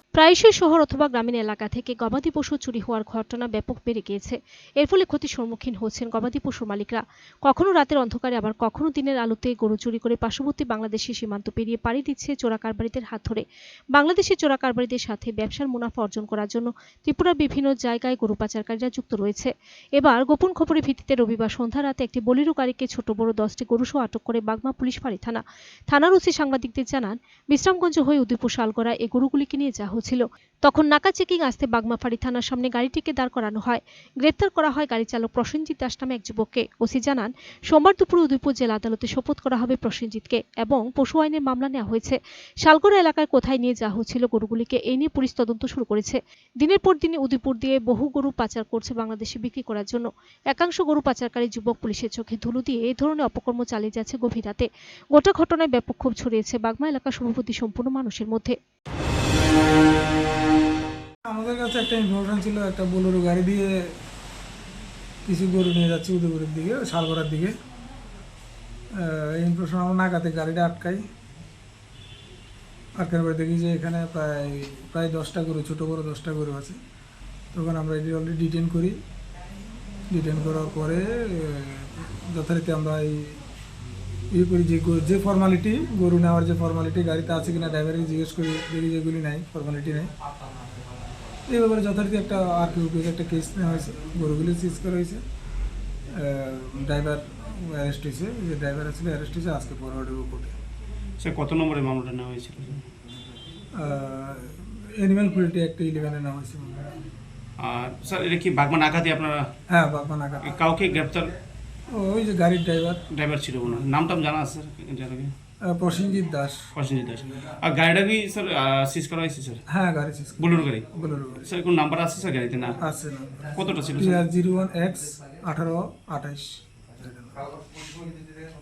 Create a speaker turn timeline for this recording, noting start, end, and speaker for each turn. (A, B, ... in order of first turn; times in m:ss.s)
0:00.2-0:58.6 A
1:01.3-1:03.9 B
1:05.3-1:07.5 B
1:09.0-1:11.0 B
1:13.0-1:16.8 B
1:17.5-1:19.0 B
1:20.1-1:23.4 B
1:24.3-1:30.1 B
1:31.5-1:35.2 B
1:36.1-1:40.6 B
1:41.2-1:42.8 C
1:43.8-1:47.0 B
1:47.6-1:49.4 C
1:49.7-1:50.6 B
1:50.4-1:51.3 C
1:51.9-1:53.0 B
1:53.1-1:55.3 C
1:55.7-1:56.6 B
1:56.8-1:59.6 C
1:59.7-2:01.4 B
2:00.4-2:00.9 C
2:01.4-2:02.8 C
2:02.8-2:07.4 B
2:03.6-2:04.2 C